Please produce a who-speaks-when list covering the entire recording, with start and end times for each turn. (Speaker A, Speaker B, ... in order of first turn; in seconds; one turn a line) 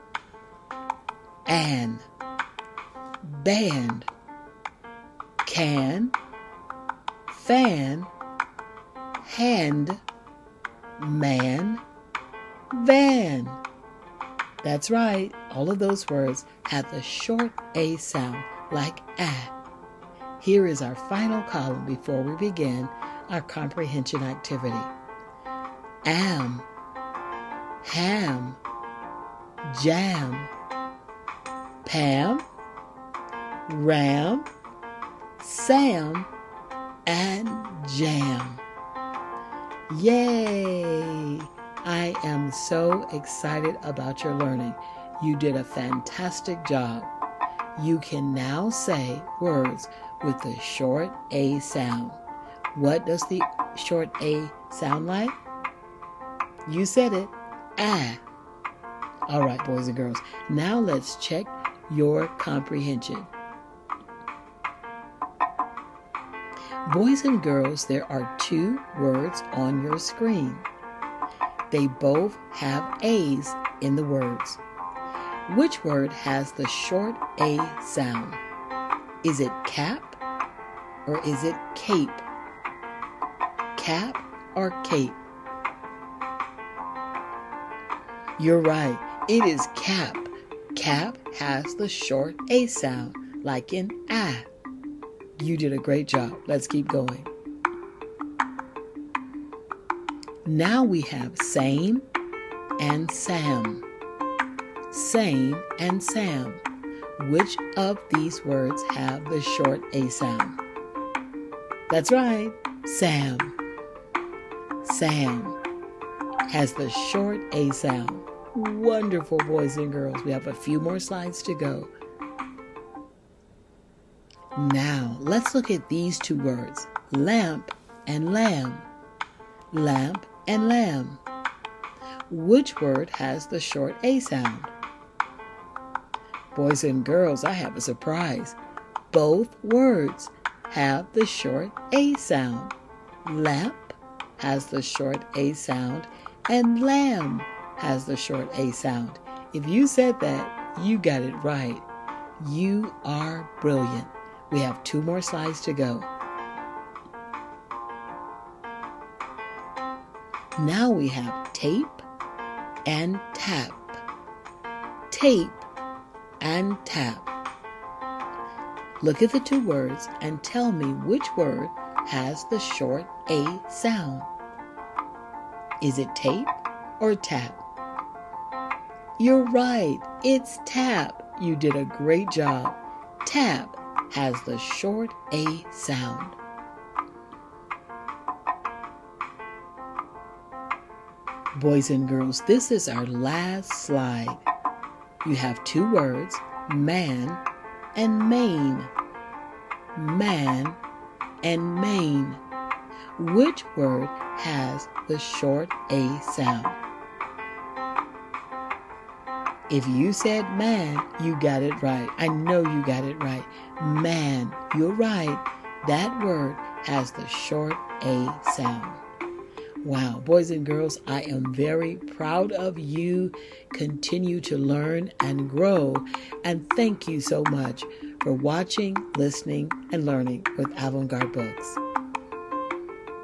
Speaker A: 1.5-2.0
Speaker A: 3.2-4.1
Speaker A: 5.4-6.1
Speaker A: 7.3-8.1
Speaker A: 9.2-10.0
Speaker A: 11.0-11.8
Speaker A: 12.7-13.6
Speaker A: 14.6-19.5
Speaker A: 20.4-24.9
Speaker A: 26.0-26.7
Speaker A: 27.8-28.6
Speaker A: 29.7-30.5
Speaker A: 31.9-32.4
Speaker A: 33.7-34.5
Speaker A: 35.4-36.3
Speaker A: 37.0-38.6
Speaker A: 39.9-47.1
Speaker A: 47.8-52.2
Speaker A: 52.7-55.4
Speaker A: 56.6-58.2
Speaker A: 59.3-63.3
Speaker A: 66.9-70.7
Speaker A: 71.7-74.6
Speaker A: 75.5-78.4
Speaker A: 79.2-80.2
Speaker A: 81.0-82.2
Speaker A: 83.8-85.2
Speaker A: 88.4-94.5
Speaker A: 95.4-97.3
Speaker A: 100.4-102.1
Speaker A: 102.8-103.8
Speaker A: 104.9-106.6
Speaker A: 107.2-110.6
Speaker A: 111.9-113.5
Speaker A: 114.8-115.6
Speaker A: 116.5-121.9
Speaker A: 124.5-128.9
Speaker A: 129.7-131.2
Speaker A: 132.3-134.7
Speaker A: 136.5-138.6
Speaker A: 139.1-142.7
Speaker A: 143.2-151.9
Speaker A: 152.4-156.1
Speaker A: 160.6-162.0
Speaker A: 162.9-164.0
Speaker A: 165.1-165.7
Speaker A: 166.4-167.3
Speaker A: 169.0-174.3
Speaker A: 175.8-177.6
Speaker A: 179.2-186.4
Speaker A: 191.5-194.5
Speaker A: 195.2-197.4
Speaker A: 197.9-198.9
Speaker A: 199.9-200.8
Speaker A: 201.4-202.4
Speaker A: 203.2-206.8
Speaker A: 209.7-219.0
Speaker A: 219.8-231.8